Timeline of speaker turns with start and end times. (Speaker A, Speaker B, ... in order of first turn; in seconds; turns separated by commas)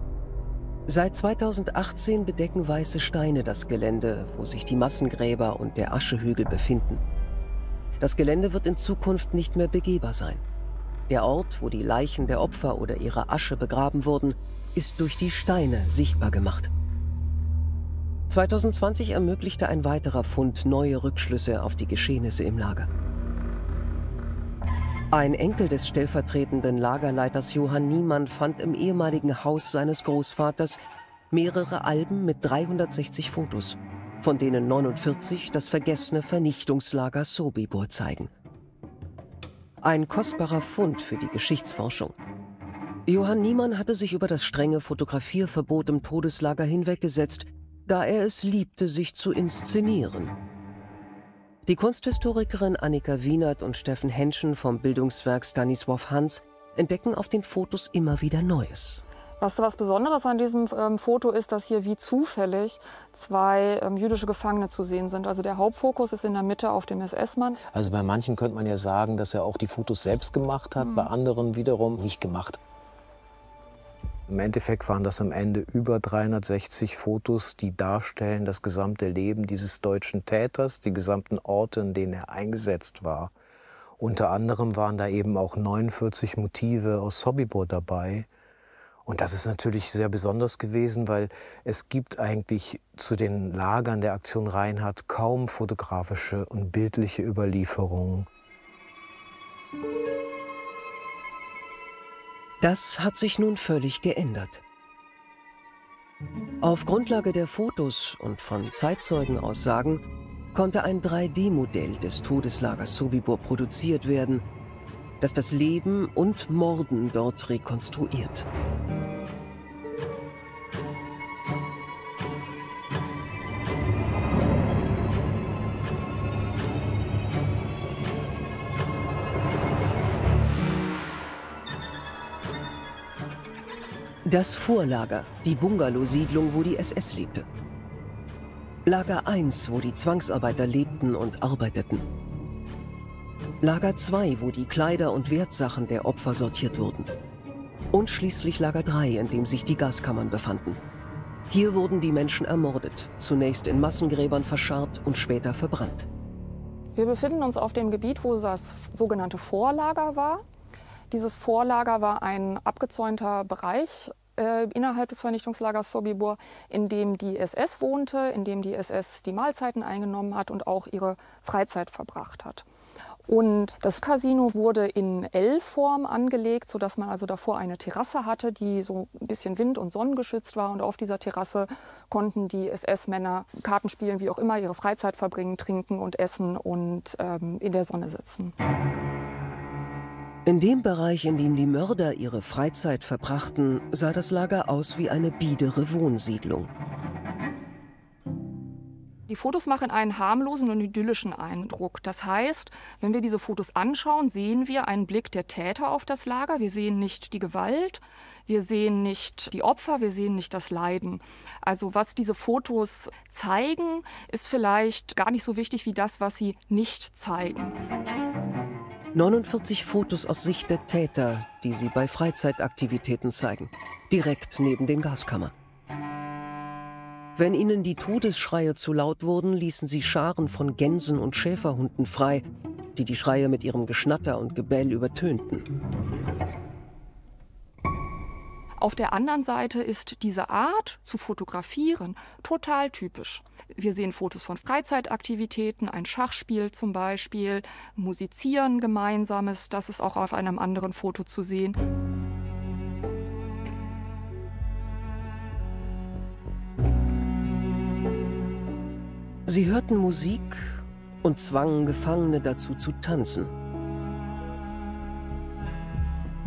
Speaker A: 0.9-7.0, Speaker A: 8.0-10.4, Speaker A: 11.1-16.7, Speaker A: 18.3-22.9, Speaker A: 25.1-30.8, Speaker A: 31.3-38.3, Speaker A: 39.8-42.1, Speaker A: 43.0-50.3, Speaker A: 51.6-59.0, Speaker B: 59.4-67.6, Speaker C: 67.7-72.6, Speaker B: 70.8-71.1, Speaker C: 74.3-83.3, Speaker C: 84.0-88.3, Speaker C: 89.0-98.3, Speaker A: 102.6-104.6, Speaker A: 106.6-114.4, Speaker A: 115.2-118.5, Speaker A: 134.2-137.4, Speaker A: 138.8-142.0, Speaker A: 143.6-147.1, Speaker A: 147.9-150.8, Speaker A: 151.5-156.1, Speaker B: 156.9-160.4, Speaker B: 161.1-172.7, Speaker B: 173.3-188.5, Speaker A: 190.4-196.7, Speaker B: 199.3-217.7, Speaker A: 219.1-225.5, Speaker A: 227.3-232.4, Speaker A: 232.9-235.7, Speaker B: 238.8-251.8, Speaker A: 259.5-263.5